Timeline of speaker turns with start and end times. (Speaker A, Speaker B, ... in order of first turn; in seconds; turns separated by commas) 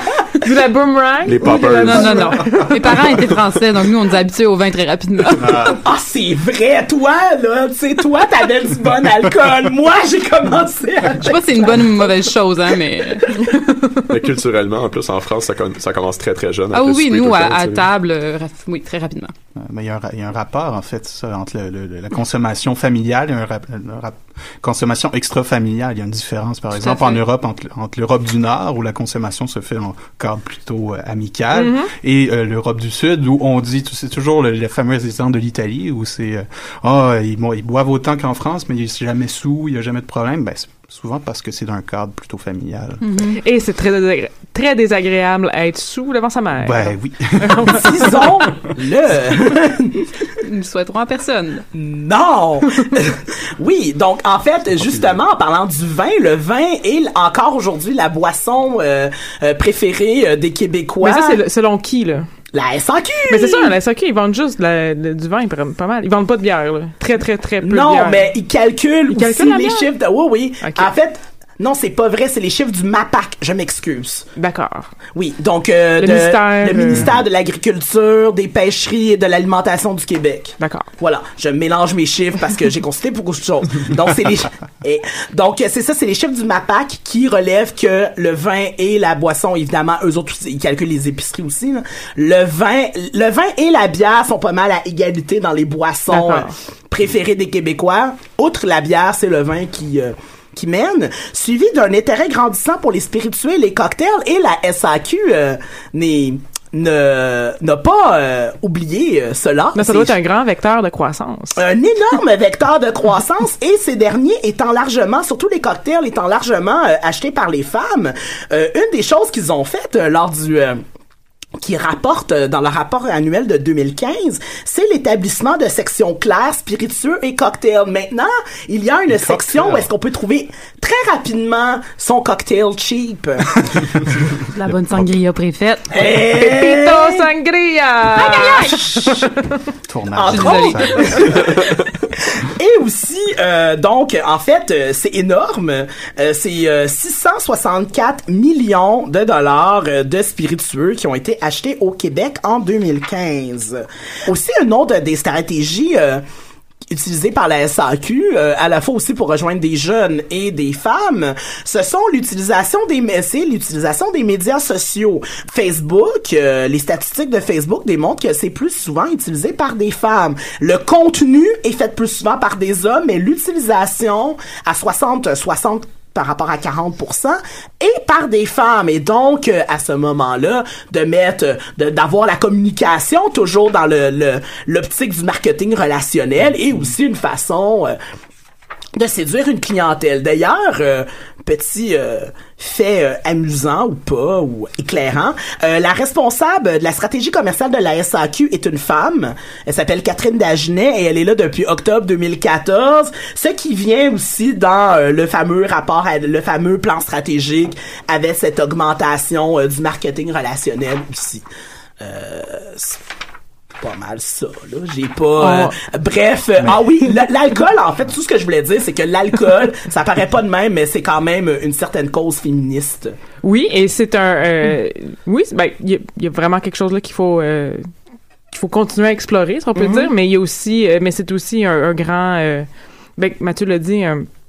Speaker A: 0.4-2.7, Speaker B: 1.2-3.2, Speaker C: 1.5-5.5, Speaker D: 5.4-5.8, Speaker E: 5.6-12.3, Speaker C: 11.2-13.8, Speaker B: 14.1-17.9, Speaker C: 16.7-19.3, Speaker D: 19.6-43.3, Speaker C: 26.8-27.2, Speaker A: 31.5-31.9, Speaker C: 43.0-43.4, Speaker A: 43.4-48.2, Speaker D: 46.6-47.7, Speaker E: 47.7-50.1, Speaker C: 50.4-51.6, Speaker E: 51.7-61.4, Speaker D: 54.8-55.2, Speaker A: 61.0-62.3, Speaker E: 62.5-63.7, Speaker A: 63.3-68.3, Speaker E: 67.6-74.3, Speaker A: 69.1-69.9, Speaker A: 70.6-70.9, Speaker A: 74.3-74.9, Speaker E: 75.1-110.1, Speaker A: 76.0-77.1, Speaker A: 80.6-80.9, Speaker A: 96.1-96.5, Speaker A: 109.7-111.6, Speaker E: 111.6-120.8, Speaker E: 121.6-134.1, Speaker D: 129.1-129.9, Speaker C: 134.5-136.0, Speaker E: 135.9-137.3, Speaker A: 136.1-139.4, Speaker C: 138.1-138.9, Speaker E: 138.6-139.2, Speaker D: 139.8-141.3, Speaker E: 140.1-141.8, Speaker C: 140.3-141.3, Speaker E: 142.4-156.2, Speaker E: 156.9-187.9, Speaker E: 188.9-211.4, Speaker E: 212.0-213.0, Speaker E: 213.8-223.2, Speaker A: 215.4-215.7, Speaker A: 223.4-227.9, Speaker A: 228.5-234.3, Speaker E: 229.7-230.1